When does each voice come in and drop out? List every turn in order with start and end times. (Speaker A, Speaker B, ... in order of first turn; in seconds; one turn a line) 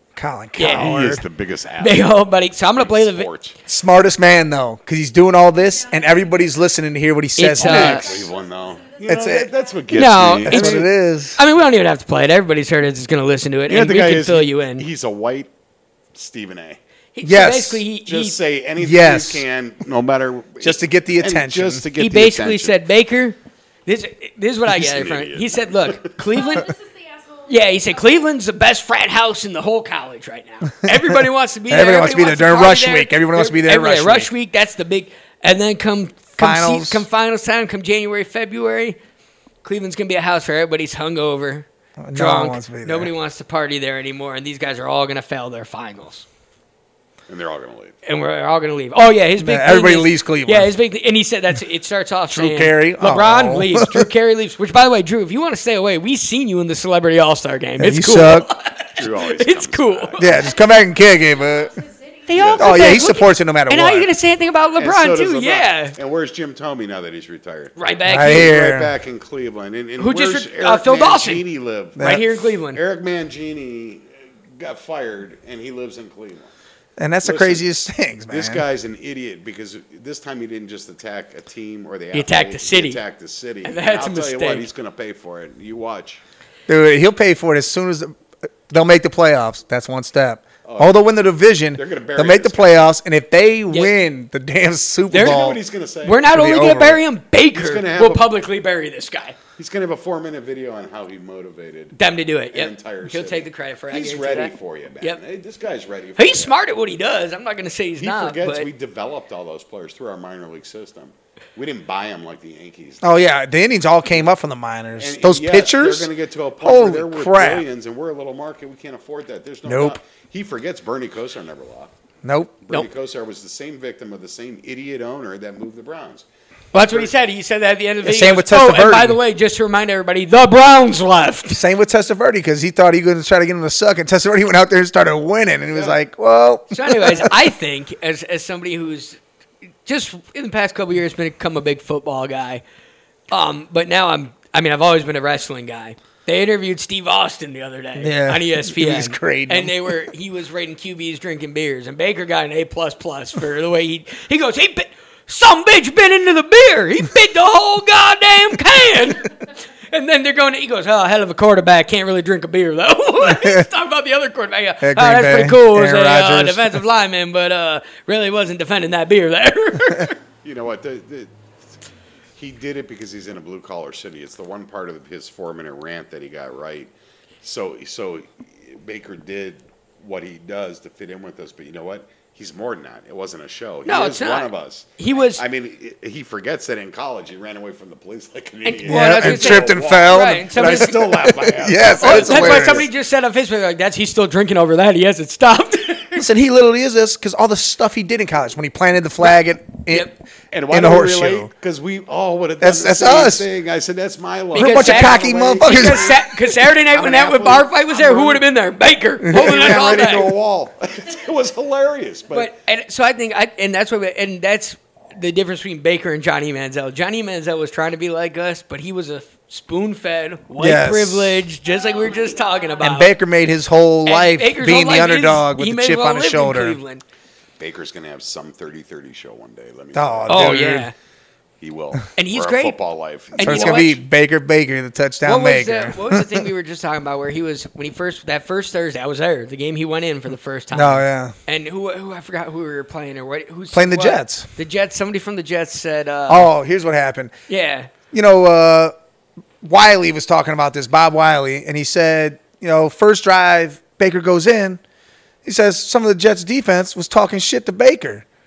Speaker A: 0.2-1.2
Speaker B: 0.6-1.0
Speaker C: 0.6-3.6
Speaker B: 1.8-3.3
Speaker A: 3.7-8.2
Speaker D: 5.5-6.8
Speaker B: 7.4-8.1
Speaker D: 7.6-10.1
Speaker C: 7.6-10.9
Speaker A: 9.1-9.5
Speaker B: 9.9-14.9
Speaker A: 10.4-11.4
Speaker C: 13.7-15.5
Speaker C: 16.1-16.8
Speaker B: 17.1-18.4
Speaker A: 17.2-17.8
Speaker C: 18.1-22.8
Speaker A: 18.8-19.5
Speaker A: 20.6-21.9
Speaker B: 22.0-26.7
Speaker C: 24.7-26.2
Speaker D: 26.2-28.3
Speaker B: 27.5-39.0
Speaker A: 30.8-34.3
Speaker A: 36.4-37.0
Speaker B: 39.6-46.3
Speaker A: 42.0-43.1
Speaker C: 47.3-48.0
Speaker B: 48.0-60.3
Speaker A: 49.4-50.7
Speaker A: 52.3-54.1
Speaker A: 57.8-58.5
Speaker C: 59.0-60.2
Speaker A: 60.2-61.7
Speaker D: 60.2-63.2
Speaker B: 62.3-66.0
Speaker C: 62.3-63.0
Speaker A: 62.4-64.1
Speaker C: 64.8-76.5
Speaker B: 67.8-68.5
Speaker A: 68.1-68.9
Speaker B: 70.0-71.4
Speaker A: 72.0-72.2
Speaker B: 72.0-72.8
Speaker A: 77.0-78.6
Speaker C: 77.2-86.2
Speaker B: 82.1-83.0
Speaker B: 83.6-84.7
Speaker A: 86.7-88.1
Speaker A: 88.7-95.6
Speaker C: 90.7-91.1
Speaker C: 91.8-92.8
Speaker B: 95.1-95.5
Speaker C: 95.1-96.3
Speaker B: 96.0-99.4
Speaker A: 96.3-97.0
Speaker C: 97.5-98.3
Speaker C: 99.6-102.0
Speaker B: 102.0-105.2
Speaker C: 102.5-106.6
Speaker B: 106.2-108.7
Speaker C: 108.0-113.1
Speaker A: 113.0-116.1
Speaker C: 115.0-121.9
Speaker A: 116.6-117.7
Speaker A: 119.7-120.0
Speaker A: 122.2-122.6
Speaker C: 122.6-127.1
Speaker B: 126.7-131.6
Speaker A: 128.0-129.2
Speaker A: 131.5-137.4
Speaker C: 135.7-136.0
Speaker B: 136.7-139.2
Speaker B: 139.9-142.6
Speaker B: 143.3-170.2
Speaker A: 148.0-150.0
Speaker A: 163.2-163.6
Speaker A: 164.8-166.8
Speaker C: 170.4-171.3
Speaker C: 172.4-176.9
Speaker C: 177.4-192.9
Speaker B: 183.9-185.4
Speaker B: 188.7-191.1
Speaker A: 188.9-192.9
Speaker B: 192.0-196.2
Speaker A: 196.2-201.5
Speaker C: 200.5-206.3
Speaker A: 202.6-203.4
Speaker B: 204.5-210.3
Speaker A: 204.6-206.2
Speaker C: 206.9-208.5
Speaker C: 209.2-212.5
Speaker A: 209.2-209.6
Speaker B: 212.3-223.2
Speaker A: 220.6-221.4
Speaker D: 221.6-223.1
Speaker A: 222.8-226.8
Speaker B: 224.1-227.0
Speaker C: 227.6-230.7
Speaker A: 229.9-230.9
Speaker B: 230.3-230.9
Speaker C: 231.6-234.0
Speaker B: 232.2-232.8
Speaker B: 233.3-234.0
Speaker A: 233.4-236.4
Speaker B: 235.2-246.5
Speaker A: 240.7-241.3
Speaker A: 243.7-244.5
Speaker A: 246.3-247.3
Speaker B: 247.5-247.9
Speaker A: 248.1-248.9
Speaker A: 249.6-254.8
Speaker A: 255.4-258.2